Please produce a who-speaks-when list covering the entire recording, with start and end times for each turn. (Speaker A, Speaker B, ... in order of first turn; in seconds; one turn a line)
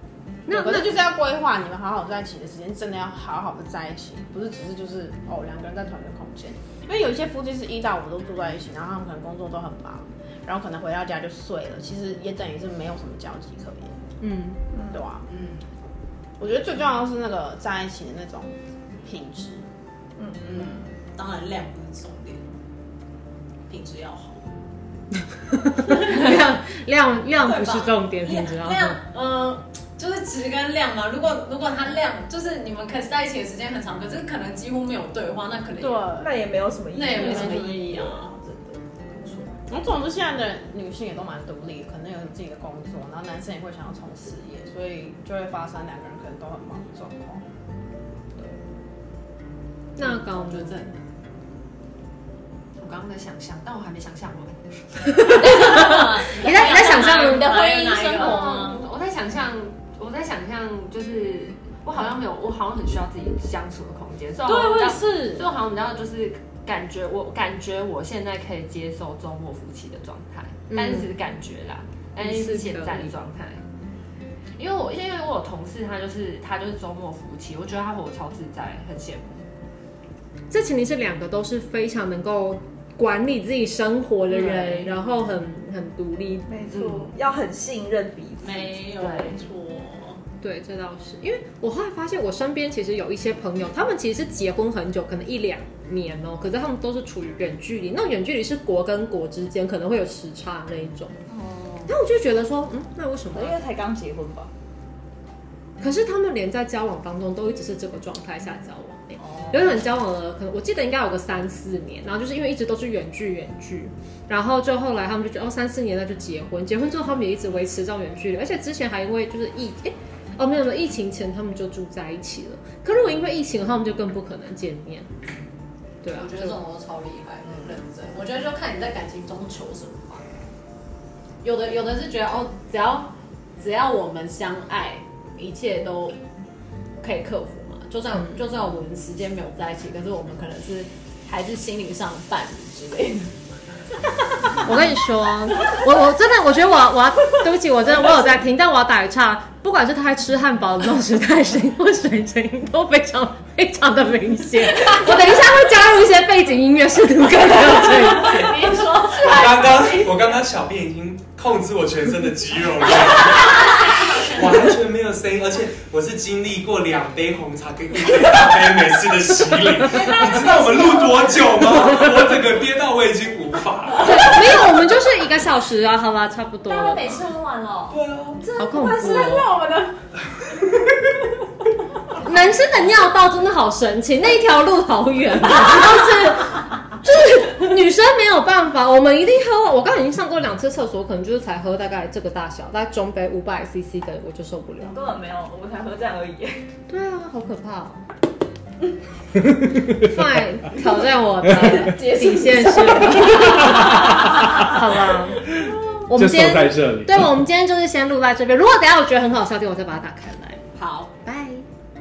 Speaker A: 0.5-0.9
Speaker B: 0.5-13.9
Speaker A: 14.2-14.6
Speaker C: 14.7-15.0
Speaker B: 14.9-15.2
Speaker D: 15.3-15.6
Speaker B: 16.4-18.5
Speaker B: 19.0-19.6
Speaker C: 20.2-20.8
Speaker D: 20.4-22.4
Speaker D: 23.7-24.5
Speaker A: 25.5-29.0
Speaker D: 25.9-26.5
Speaker D: 27.3-36.1
Speaker B: 35.8-36.3
Speaker C: 36.1-38.4
Speaker D: 36.9-39.5
Speaker B: 39.7-47.4
Speaker A: 50.0-50.8
Speaker D: 50.1-51.0
Speaker E: 52.8-55.2
Speaker A: 55.1-57.6
Speaker C: 55.4-58.5
Speaker D: 55.4-58.6
Speaker B: 57.6-58.8
Speaker E: 58.2-73.6
Speaker B: 64.5-65.4
Speaker A: 70.7-71.1
Speaker A: 72.2-73.1
Speaker E: 74.6-79.4
Speaker A: 80.5-86.5
Speaker C: 84.3-84.9
Speaker C: 86.5-89.4
Speaker D: 86.7-87.1
Speaker D: 88.4-90.2
Speaker A: 90.4-101.1
Speaker C: 101.3-101.9
Speaker A: 101.9-103.7
Speaker C: 103.3-104.5
Speaker A: 105.8-125.1
Speaker C: 109.2-109.7
Speaker A: 126.0-126.6
Speaker D: 126.1-130.3
Speaker D: 131.4-136.2
Speaker D: 137.0-143.4
Speaker A: 144.6-158.8
Speaker C: 158.1-160.2
Speaker F: 159.1-174.6
Speaker C: 163.4-164.3
Speaker A: 174.0-177.3
Speaker C: 176.7-178.0
Speaker F: 177.9-178.4
Speaker D: 178.4-179.9
Speaker A: 178.6-179.5
Speaker C: 178.7-179.1
Speaker A: 182.1-195.0
Speaker C: 194.8-196.7
Speaker A: 196.9-198.0
Speaker A: 199.9-205.6
Speaker D: 201.4-204.2
Speaker F: 205.7-207.4
Speaker A: 206.1-210.6
Speaker D: 210.8-211.1
Speaker A: 211.2-211.6